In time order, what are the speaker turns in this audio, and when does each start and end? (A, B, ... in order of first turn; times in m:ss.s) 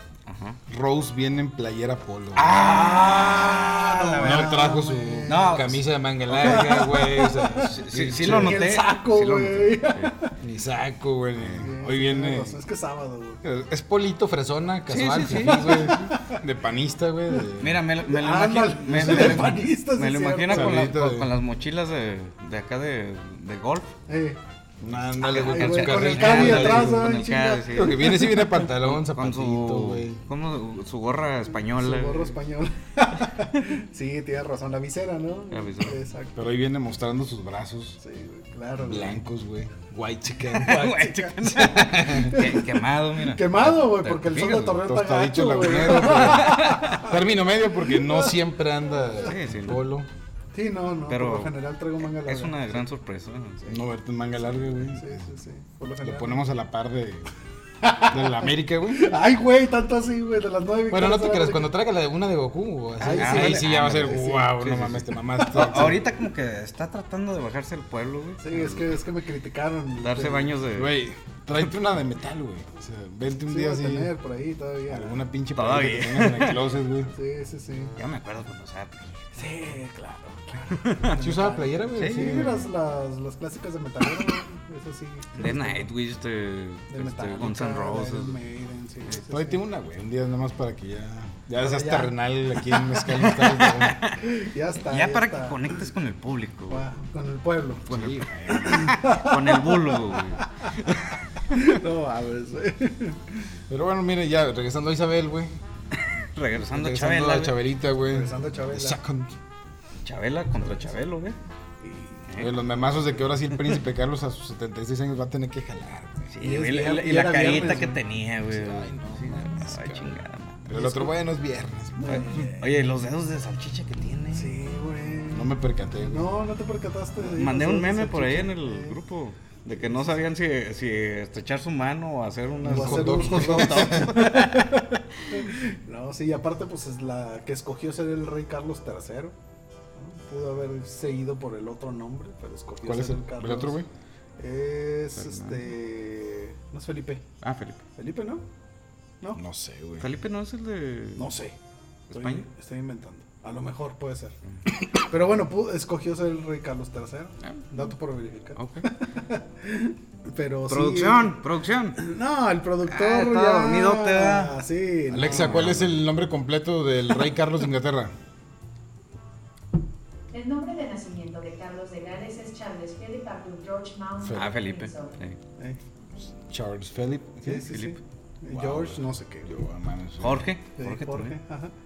0:00.2-0:00.6 A
0:00.7-0:02.6 B
0:02.3-0:04.7 A
0:02.5-0:05.6 C
0:04.2-0:08.6 B
0:05.3-0:06.8 A
0:06.3-0:10.3 C
0:07.6-0:10.1 A
0:10.4-0:12.6 B
0:11.6-0:13.4 C
0:13.4-0:17.8 B
0:14.9-0:16.0 A
0:15.4-0:16.4 C
0:17.6-0:23.9 A
0:18.0-0:20.9 C
0:18.9-0:19.6 B
0:20.5-0:21.3 B
0:24.1-0:24.4 C
0:24.8-0:27.1 B
0:24.8-0:28.2 A
0:25.2-0:28.6 C
0:27.7-0:30.2 B
0:28.7-0:32.4 A
0:31.6-0:36.4 C
0:35.5-0:36.0 A
0:36.4-0:38.0 B
0:38.0-0:39.2 C
0:38.8-0:40.9 B
0:40.5-0:44.8 A
0:40.5-0:47.2 C
0:41.4-0:42.4 B
0:44.6-0:50.1 B
0:46.1-0:47.0 A
0:47.8-0:48.3 C
0:49.2-0:49.8 A
0:50.5-0:52.8 C
0:51.1-0:53.6 A
0:53.7-0:55.2 B
0:54.5-0:56.4 C
0:56.0-0:57.3 B
0:57.8-1:01.7 C
0:58.1-0:59.2 B
1:00.9-1:06.0 B
1:03.0-1:04.5 C
1:03.0-1:09.0 A
1:08.4-1:10.5 C
1:10.0-1:11.0 A
1:10.7-1:14.1 B
1:13.5-1:15.2 C
1:14.9-1:17.1 B
1:15.5-1:16.6 A
1:17.1-1:17.9 C
1:18.0-1:19.3 A
1:19.3-1:25.9 C
1:20.7-1:21.2 A
1:21.1-1:22.6 B
1:21.9-1:22.6 A
1:25.3-1:28.4 A
1:26.9-1:29.6 C
1:29.1-1:34.0 B
1:31.6-1:32.1 C
1:32.9-1:34.2 A
1:34.2-1:35.9 C
1:34.8-1:36.8 A
1:36.7-1:37.9 C
1:37.9-1:41.7 A
1:37.9-1:38.9 B
1:38.6-1:40.7 C
1:41.5-1:43.5 C
1:43.7-1:45.6 B
1:46.3-1:47.6 A
1:46.7-1:49.4 B
1:48.1-1:49.0 C
1:50.0-1:51.4 A
1:51.8-1:52.3 C
1:52.3-1:52.6 A
1:52.4-1:56.3 B
1:56.3-2:00.7 A
1:56.4-1:58.0 C
1:58.5-2:02.2 B
2:00.7-2:01.1 C
2:02.0-2:02.7 C
2:02.0-2:04.6 A
2:04.3-2:09.0 C
2:05.3-2:06.2 B
2:07.2-2:14.8 A
2:09.7-2:10.2 C
2:12.6-2:14.1 B
2:12.6-2:19.3 C
2:20.0-2:23.8 C
2:22.8-2:23.9 B
2:24.4-2:27.2 C
2:25.2-2:25.7 A
2:27.4-2:27.8 A
2:28.0-2:28.4 C
2:29.4-2:30.1 B
2:30.0-2:31.3 A
2:31.2-2:31.6 C
2:32.1-2:32.5 A
2:32.1-2:34.4 C
2:34.9-2:41.4 C
2:37.4-2:37.9 A
2:38.6-2:38.8 A
2:40.7-2:42.0 A
2:42.0-2:45.6 C
2:42.8-2:44.6 A
2:45.1-2:48.1 B
2:45.2-2:46.0 A
2:50.3-2:55.1 D
2:54.2-2:54.6 B
2:54.3-2:55.4 A
2:56.2-2:57.7 B
2:57.4-2:59.5 C
2:57.6-2:58.0 A
2:58.5-3:00.5 B
3:00.2-3:01.4 A
3:00.8-3:01.7 C